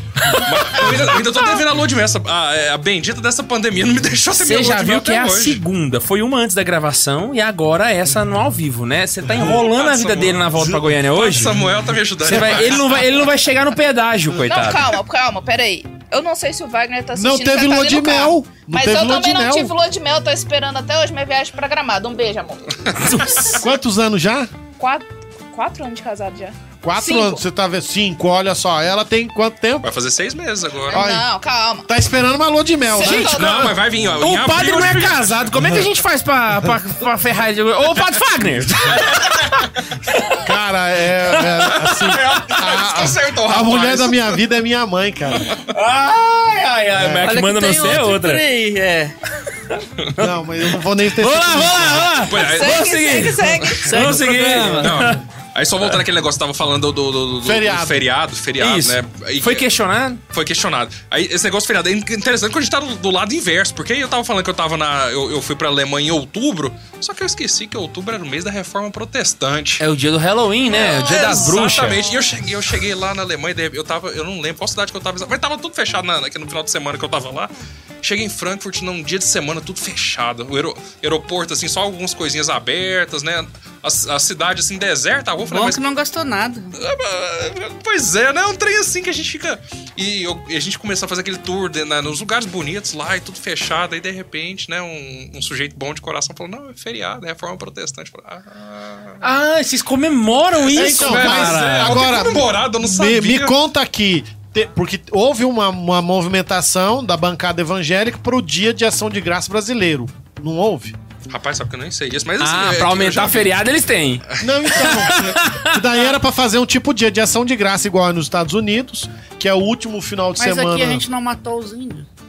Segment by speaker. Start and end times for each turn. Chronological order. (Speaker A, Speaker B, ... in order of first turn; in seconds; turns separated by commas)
Speaker A: 0.2-1.3, Speaker B: 0.3-5.6, Speaker A: 4.3-11.6, Speaker B: 9.3-13.2, Speaker A: 12.2-14.9, Speaker C: 14.4-23.6, Speaker D: 17.1-19.7, Speaker B: 22.9-23.4, Speaker A: 22.9-23.6, Speaker D: 23.6-24.5, Speaker C: 24.8-27.4, Speaker D: 26.8-29.9, Speaker B: 29.8-31.1, Speaker C: 30.9-31.9, Speaker D: 30.9-31.2, Speaker D: 31.9-33.4, Speaker C: 32.9-33.7, Speaker A: 32.9-40.5, Speaker B: 33.3-35.7, Speaker D: 38.9-39.1, Speaker B: 38.9-39.4, Speaker D: 40.3-45.5, Speaker A: 41.3-42.6, Speaker B: 41.8-44.4, Speaker B: 45.3-45.6, Speaker A: 45.5-48.4, Speaker D: 46.9-47.3, Speaker E: 47.2-49.1, Speaker D: 50.1-52.2, Speaker A: 50.2-55.2, Speaker B: 52.2-53.8, Speaker C: 52.3-54.2, Speaker E: 53.8-55.0, Speaker B: 54.7-59.7, Speaker D: 57.4-58.0, Speaker A: 58.6-60.2, Speaker B: 60.3-69.8, Speaker A: 69.8-72.0, Speaker C: 70.7-72.2, Speaker B: 70.7-85.8, Speaker E: 85.5-86.7, Speaker B: 86.7-99.3, Speaker A: 99.2-102.1, Speaker B: 100.5-103.5, Speaker D: 100.7-111.0, Speaker B: 111.3-113.6, Speaker A: 112.4-115.8, Speaker B: 114.3-114.9, Speaker D: 114.4-121.0, Speaker E: 120.4-122.1